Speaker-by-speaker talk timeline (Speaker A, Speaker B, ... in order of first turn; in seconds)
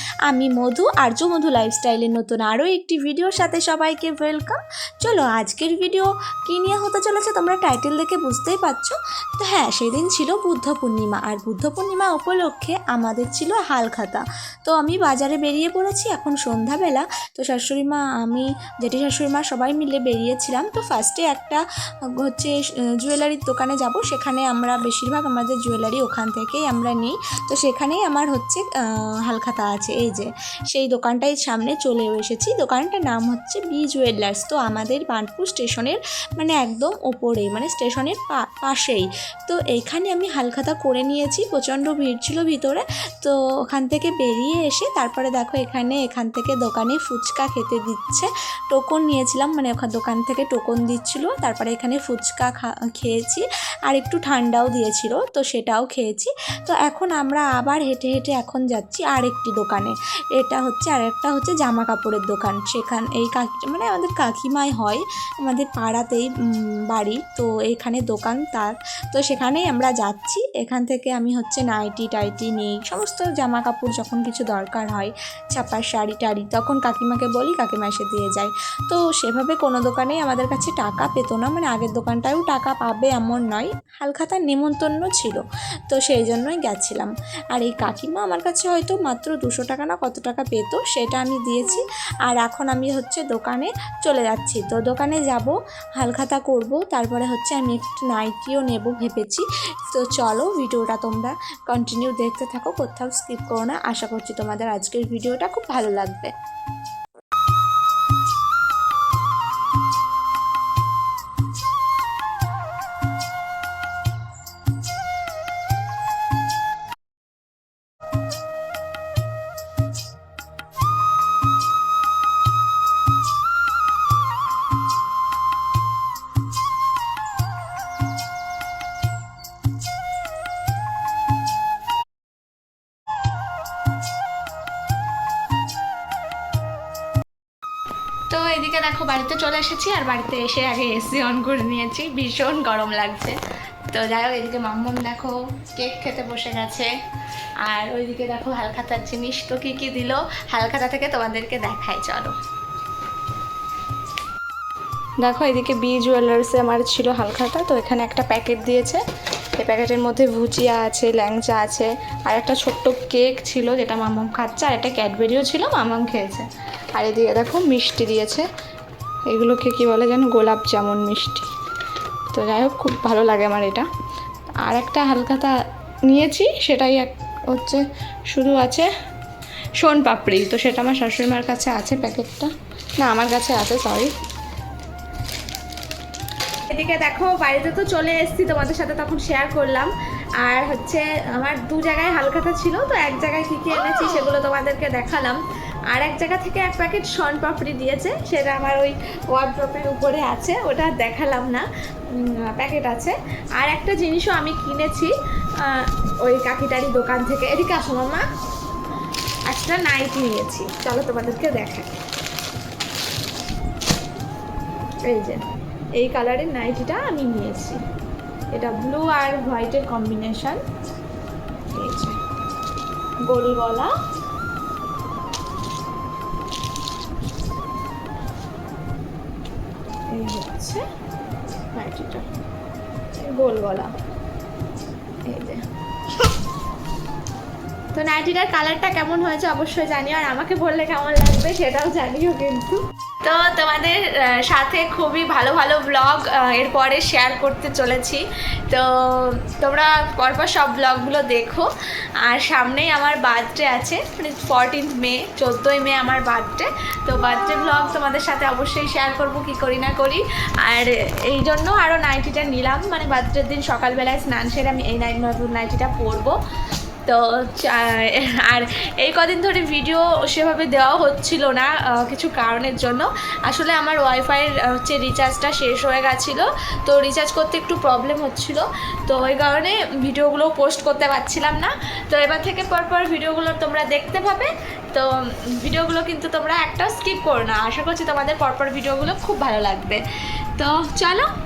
Speaker A: 0.3-21.6, 22.2-66.3, 66.9-106.3, 138.3-143.4, 143.9-146.9, 147.6-152.3, 155.2-159.0, 159.6-168.5, 169.3-171.5, 172.3-173.9, 174.6-175.5, 176.1-178.9, 179.8-184.1, 186.7-195.4, 195.9-205.1, 205.6-208.3, 209.5-212.0, 215.1-215.5, 216.0-217.8, 218.5-220.6, 221.7-222.2, 223.3-223.9, 230.1-230.8, 231.7-232.3, 233.2-233.9, 235.3-235.6, 237.9-251.7, 252.2-266.3, 267.1-290.0, 290.6-291.3